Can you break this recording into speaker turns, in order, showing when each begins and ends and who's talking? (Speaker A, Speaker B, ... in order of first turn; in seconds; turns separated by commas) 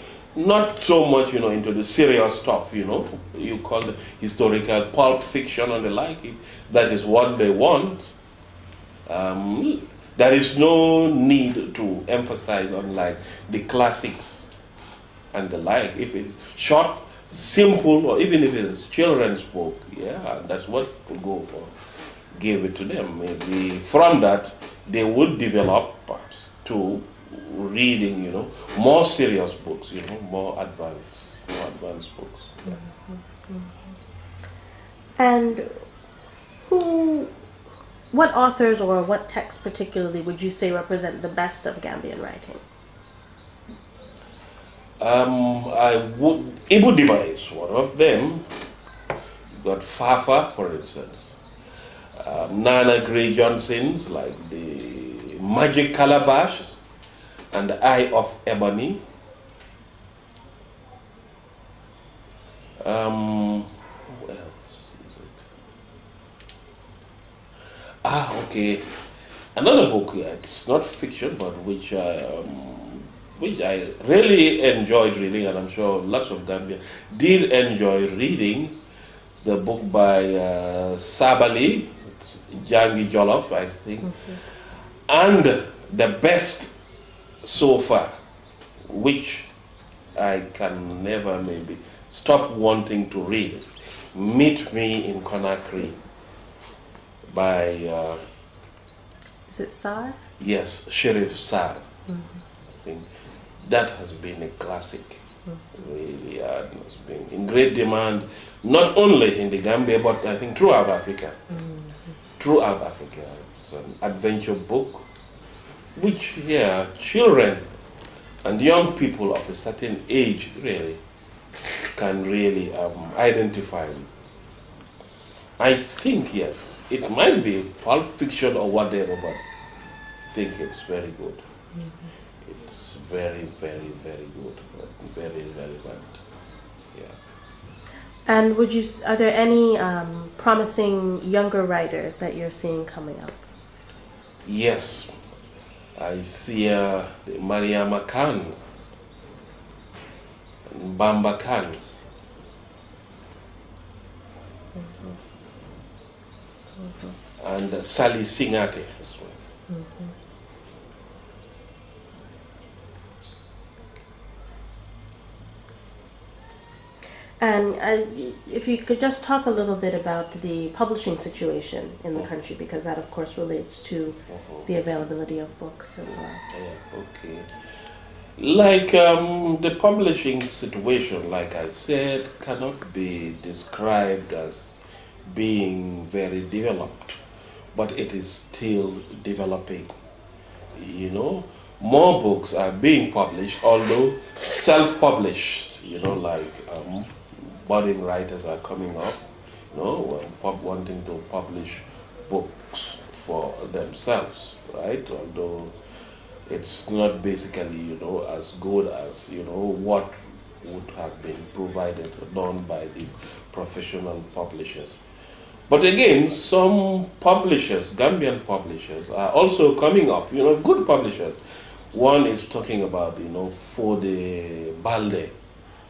Speaker A: 0.3-8.1, Speaker A: 9.1-14.5, Speaker A: 15.3-21.7, Speaker A: 22.3-32.8, Speaker B: 32.7-33.9, Speaker B: 35.2-35.7, Speaker B: 36.7-37.3, Speaker B: 38.1-42.6, Speaker A: 45.0-48.7, Speaker A: 49.6-51.4, Speaker A: 52.1-56.8, Speaker A: 57.5-59.0, Speaker A: 62.8-65.4, Speaker A: 68.0-68.9, Speaker A: 69.5-78.8, Speaker A: 79.3-86.7, Speaker A: 87.4-88.1, Speaker A: 88.8-89.5, Speaker A: 90.1-96.0, Speaker A: 97.3-98.2, Speaker B: 99.5-100.2, Speaker A: 100.4-101.9, Speaker A: 102.8-103.1, Speaker A: 103.6-111.5, Speaker A: 112.4-115.1, Speaker A: 116.0-117.7, Speaker A: 118.4-121.0, Speaker A: 121.9-124.1, Speaker A: 125.6-129.4, Speaker A: 130.3-131.4, Speaker A: 132.4-136.2, Speaker B: 138.2-143.4, Speaker A: 144.4-145.1, Speaker A: 145.9-148.7, Speaker A: 150.7-152.0, Speaker B: 154.8-155.2, Speaker B: 156.8-157.1, Speaker A: 157.4-159.4, Speaker B: 159.7-160.1, Speaker B: 167.4-176.4, Speaker A: 174.3-174.7, Speaker A: 176.4-177.5, Speaker A: 178.4-187.2, Speaker A: 187.7-189.9, Speaker A: 190.7-205.7, Speaker A: 206.5-215.0, Speaker A: 215.7-221.4, Speaker A: 221.9-225.3